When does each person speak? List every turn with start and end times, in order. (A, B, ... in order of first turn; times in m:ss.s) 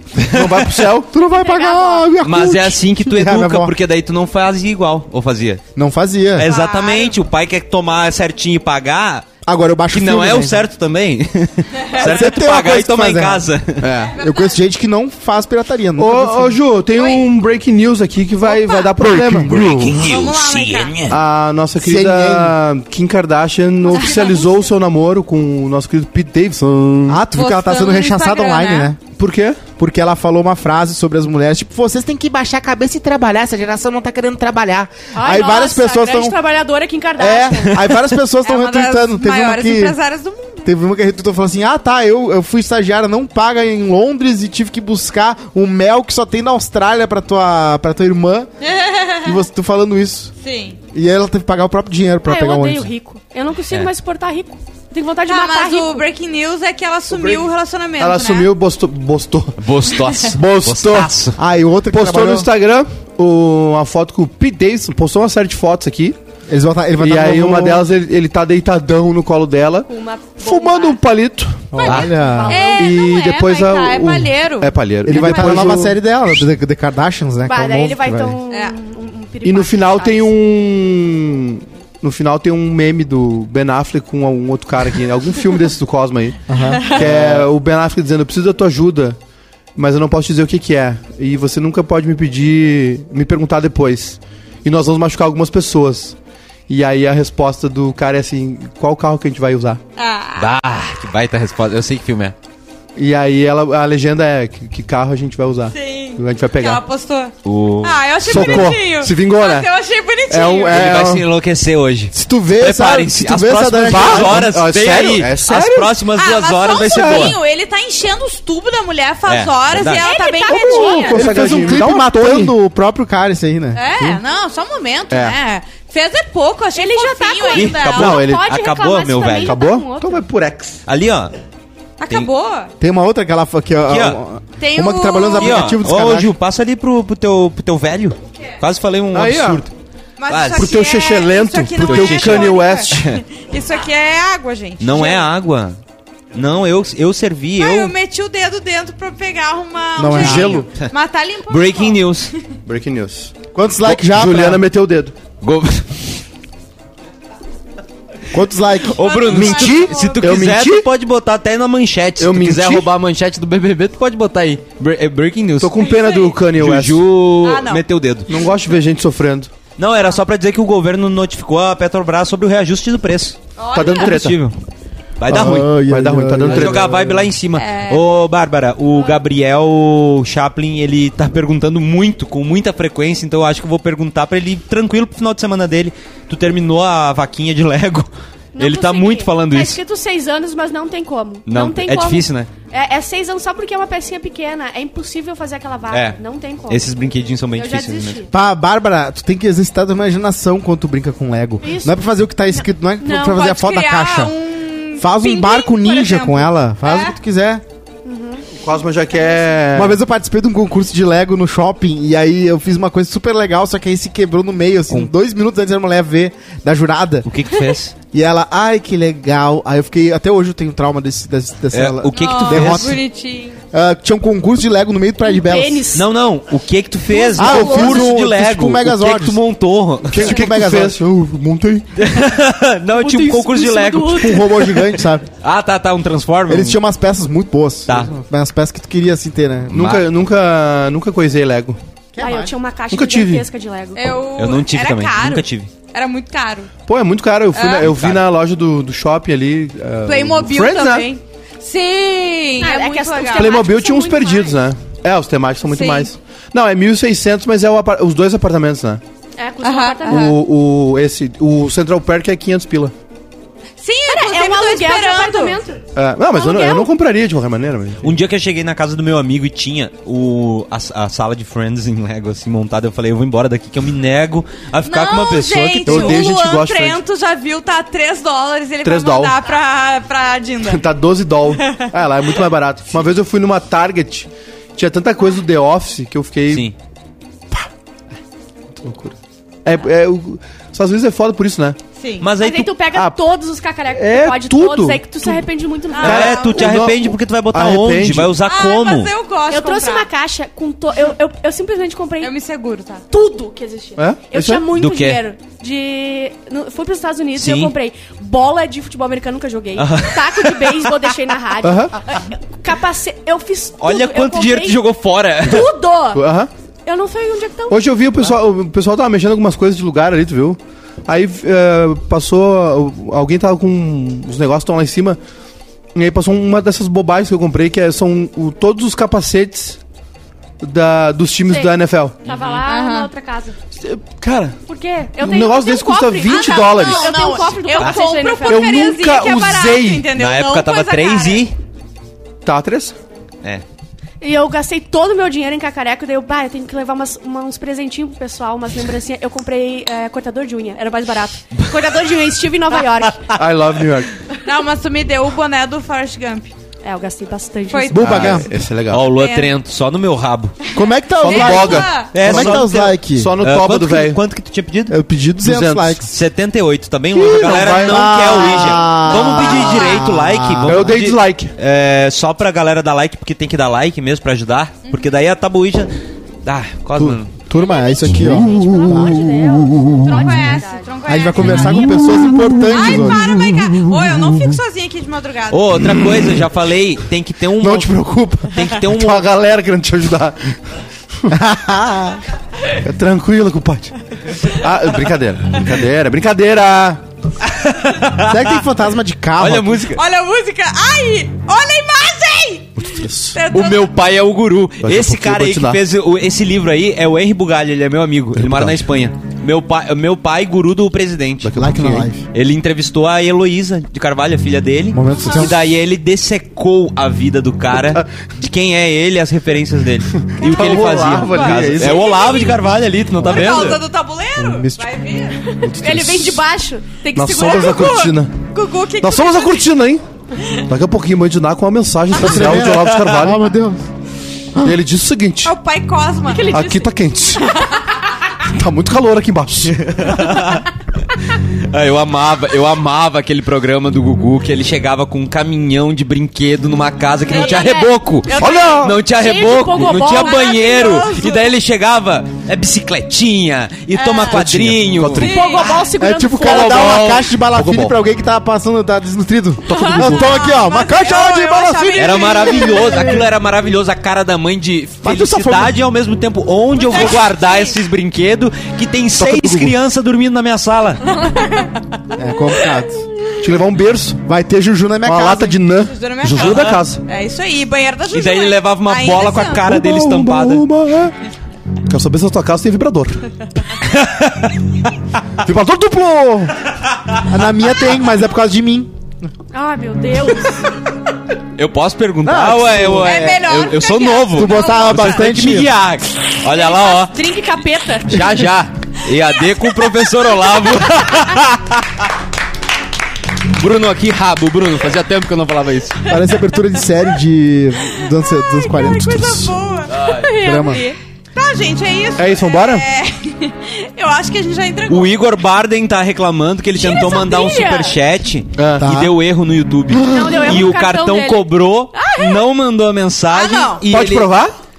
0:00.2-0:00.6 A
0:00.3-0:01.1 B
0:01.1-0:03.7 C
0:01.3-0:02.1 D
0:02.2-0:05.6 A
0:05.8-0:06.5 C
0:06.4-0:09.3 A
0:06.4-0:07.2 E
0:09.4-0:10.6 C
0:09.9-0:13.9 A
0:12.0-0:13.4 C
0:13.8-0:14.1 B
0:13.9-0:14.6 E
0:14.2-0:16.6 C
0:16.0-0:20.0 B
0:16.9-0:17.3 E
0:18.4-0:18.9 E
0:19.1-0:19.6 C
0:19.5-0:21.2 A
0:19.9-0:21.1 E
0:21.1-0:27.2 B
0:21.8-0:22.6 C
0:23.9-0:24.5 E
0:23.9-0:24.6 D
0:27.1-0:29.0 C
0:27.3-0:28.9 E
0:29.2-0:29.6 B
0:29.8-0:36.4 C
0:35.1-0:37.8 D
0:37.2-0:37.9 B
0:37.2-0:40.0 C
0:38.4-0:40.7 E
0:40.6-0:48.5 C
0:48.6-0:49.4 E
0:49.2-0:50.3 C
0:50.4-0:50.8 E
0:50.9-0:52.9 C
0:52.2-0:56.1 D
0:55.3-0:58.5 E
0:57.1-0:57.4 B
0:58.0-1:01.2 B
0:59.6-1:01.4 A
1:01.4-1:02.5 C
1:01.9-1:06.2 B
1:06.5-1:07.9 C
1:07.0-1:12.0 B
1:09.9-1:11.0 D
1:11.7-1:12.7 C
1:11.8-1:15.6 E
1:11.8-1:13.0 D
1:11.8-1:12.1 A
1:12.7-1:16.0 B
1:15.0-1:18.4 C
1:17.4-1:20.3 D
1:19.4-1:29.2 B
1:26.5-1:27.4 C
1:26.7-1:27.0 E
1:29.8-1:36.2 B
1:36.7-1:39.8 B
1:40.0-1:40.6 E
1:40.4-1:42.4 A
1:43.0-1:46.8 B
1:45.7-1:50.8 E
1:47.4-1:48.5 A
1:48.2-1:49.7 B
1:48.3-1:48.7 C
1:50.3-1:51.3 B
1:50.7-1:57.4 A
1:52.1-1:54.5 C
1:53.8-1:56.0 B
1:56.1-2:01.2 E
1:56.6-1:57.4 B
1:59.2-2:00.1 A
1:59.8-2:01.3 D
2:00.5-2:02.5 B
2:01.1-2:04.2 C
2:03.7-2:08.2 E
2:05.1-2:05.4 B
2:06.7-2:10.2 D
2:07.5-2:09.6 A
2:07.9-2:08.5 B
2:09.4-2:10.8 B
2:10.9-2:11.4 A
2:12.0-2:12.7 E
2:12.8-2:16.3 C
2:13.9-2:14.2 A
2:14.6-2:15.8 E
2:15.4-2:19.7 A
2:19.1-2:19.7 B
2:20.2-2:25.3 E
2:20.3-2:20.8 A
2:20.6-2:23.1 B
2:21.8-2:23.2 A
2:24.8-2:25.8 A
2:26.3-2:27.9 A
2:27.6-2:32.2 E
2:30.0-2:30.7 C
2:30.2-2:30.9 A
2:30.2-2:30.6 B
2:31.4-2:32.3 A
2:32.6-2:35.2 B
2:33.5-2:34.6 C
2:35.4-2:36.2 A
2:38.3-2:39.0 C
2:38.8-2:45.9 A
2:39.0-2:40.3 E
2:39.3-2:40.9 B
2:42.2-2:42.9 B
2:45.6-2:47.1 B
2:45.8-2:46.4 E
2:46.5-2:48.3 A
2:47.4-2:47.8 E
2:48.3-2:49.5 B
2:49.8-2:54.6 A
2:53.6-2:54.2 E
2:53.7-2:54.4 B
2:55.2-2:55.7 A
2:55.3-2:57.1 B
2:55.3-2:57.3 C
2:56.5-3:09.8 A
2:57.5-2:58.0 E
3:08.5-3:16.9 D
3:11.5-3:12.5 A
3:15.9-3:18.2 A
3:17.5-3:18.3 D
3:18.3-3:24.3 C
3:21.6-3:23.4 D
3:23.2-3:27.2 E
3:25.0-3:27.6 C
3:28.0-3:28.5 D
3:28.5-3:30.0 B
3:29.2-3:29.4 D
3:29.7-3:37.3 C
3:37.2-3:37.9 A
3:38.1-3:43.0 C
3:41.7-3:43.0 A
3:42.1-3:43.6 E
3:43.7-3:45.9 C
3:45.3-3:46.1 D
3:45.9-3:50.3 A
3:47.1-3:48.1 D
3:47.4-3:49.4 C
3:50.1-3:51.9 B
3:50.2-3:51.0 C
3:52.0-3:56.8 A
3:52.9-3:54.5 D
3:54.2-3:55.2 C
3:56.5-3:59.9 C
3:57.9-3:58.1 A
3:59.7-4:01.8 B
3:59.7-4:00.0 A
4:02.1-4:02.5 C
4:02.2-4:04.2 D
4:02.9-4:03.4 B
4:04.0-4:06.7 E
4:04.4-4:05.7 A
4:06.9-4:11.1 B
4:07.5-4:07.9 E
4:07.8-4:08.2 A
4:10.0-4:13.6 E
4:12.6-4:14.6 D
4:13.3-4:19.0 B
4:15.6-4:16.1 E
4:19.4-4:20.4 D
4:19.6-4:20.4 E
4:20.1-4:22.9 B
4:23.8-4:25.6 E
4:24.1-4:25.8 D
4:25.9-4:28.1 B
4:26.3-4:26.9 D
4:28.0-4:36.2 A
4:34.8-4:40.8 E
4:35.8-4:37.0 B
4:38.8-4:39.4 B
4:40.6-4:46.7 B
4:41.6-4:42.4 E
4:48.8-4:51.8 B
4:52.0-4:52.3 E
4:52.2-4:52.8 A
4:52.4-4:56.5 D
4:52.9-4:53.2 B
4:53.9-4:55.4 B
4:55.9-4:56.7 E
4:56.0-4:59.1 A
4:56.0-4:58.4 B
4:58.4-5:00.1 E
4:59.5-5:02.3 D
5:02.2-5:03.0 E
5:03.1-5:16.2 D
5:04.0-5:04.7 B
5:04.7-5:05.2 A
5:07.4-5:07.7 A
5:09.8-5:10.9 A
5:11.6-5:12.0 B
5:13.8-5:15.7 A
5:16.1-5:16.5 B
5:16.8-5:17.8 D
5:17.7-5:25.2 B
5:25.9-5:29.8 B
5:30.6-5:32.2 B
5:32.2-5:33.6 D
5:32.2-5:32.6 A
5:32.6-5:33.1 E
5:33.8-5:34.6 B
5:34.7-5:38.9 D
5:35.2-5:37.2 B
5:36.2-5:41.5 E
5:38.4-5:40.1 B
5:40.1-5:41.6 A
5:42.4-5:43.0 B
5:44.2-5:53.2 D
5:51.5-5:51.9 A
5:53.4-5:54.1 B
5:54.4-5:56.5 E
5:56.8-5:58.3 D
5:57.7-5:58.4 E
5:57.9-5:58.5 C
5:57.9-5:59.1 B
5:58.9-6:00.5 A
5:59.1-5:59.5 E
6:00.7-6:02.1 E
6:00.7-6:03.3 C
6:01.2-6:04.2 B
6:02.1-6:05.0 A
6:04.9-6:06.1 C
6:05.4-6:06.0 B
6:06.0-6:15.9 A
6:07.1-6:08.9 B
6:07.5-6:10.9 C
6:08.9-6:10.1 E
6:10.6-6:11.5 B
6:16.4-6:17.3 A
6:17.0-6:20.1 C
6:17.5-6:20.9 D
6:18.2-6:18.5 B
6:20.0-6:25.7 E
6:21.1-6:23.5 C
6:25.5-6:27.9 A
6:27.6-6:30.6 B
6:28.5-6:29.3 A
6:31.3-6:32.2 C
6:32.7-6:37.0 B
6:37.4-6:38.6 A
6:38.2-6:39.9 C
6:39.4-6:40.0 A
6:39.9-6:43.9 E
6:42.8-6:43.4 B
6:43.5-6:51.6 A
6:44.8-6:45.8 B
6:48.4-6:48.8 B
6:51.4-6:52.1 B
6:51.5-6:52.2 C
6:52.3-7:03.8 A
6:54.9-6:55.6 C
7:00.2-7:02.4 B
7:00.4-7:02.6 E
7:03.2-7:05.4 E
7:04.4-7:04.9 C
7:05.4-7:08.1 D
7:05.6-7:06.4 B
7:07.1-7:08.4 B
7:07.4-7:09.7 E
7:09.0-7:10.0 B
7:10.5-7:13.4 B
7:12.1-7:13.8 C
7:12.4-7:13.2 A
7:14.6-7:15.5 B
7:15.4-7:16.5 E
7:16.2-7:17.7 D
7:16.4-7:17.7 B
7:18.4-7:20.0 B
7:19.7-7:35.3 A
7:27.3-7:27.7 E
7:27.3-7:31.2 D
7:28.3-7:28.7 E
7:28.4-7:29.0 B
7:30.1-7:31.5 E
7:33.9-7:34.4 E
7:34.3-7:35.7 B
7:35.1-7:35.7 E
7:35.1-7:37.0 D
7:36.0-7:43.2 C
7:36.4-7:38.0 B
7:36.8-7:37.2 A
7:39.7-7:40.4 B
7:39.7-7:40.2 D
7:40.1-7:43.0 E
7:42.0-7:51.2 A
7:45.2-7:45.6 B
7:46.8-7:47.8 E
7:49.2-7:49.7 B
7:51.4-7:51.6 E
7:52.2-7:53.1 C
7:53.4-7:54.2 B
7:54.2-7:55.6 C
7:55.0-7:57.0 B
7:55.9-7:59.7 E
7:56.4-7:56.7 A
7:58.1-8:00.6 A
7:59.6-8:01.1 B
8:01.9-8:03.2 B
8:03.8-8:04.5 A
8:05.4-8:06.6 B
8:07.2-8:08.9 C
8:09.5-8:10.7 D
8:11.6-8:17.1 A
8:12.2-8:13.2 C
8:13.0-8:15.3 E
8:14.3-8:15.7 C
8:16.5-8:18.4 D
8:18.1-8:22.1 A
8:23.4-8:26.1 A
8:26.1-8:29.6 C
8:27.9-8:30.0 E
8:29.9-8:30.4 A
8:30.0-8:31.0 D
8:30.4-8:30.8 C
8:31.4-8:35.2 E
8:32.2-8:32.9 B
8:34.9-8:44.3 A
8:36.8-8:38.0 D
8:38.6-8:38.9 B
8:38.8-8:39.1 C
8:39.9-8:40.6 B
8:40.0-8:42.4 D
8:43.3-8:43.8 E
8:43.9-8:44.5 B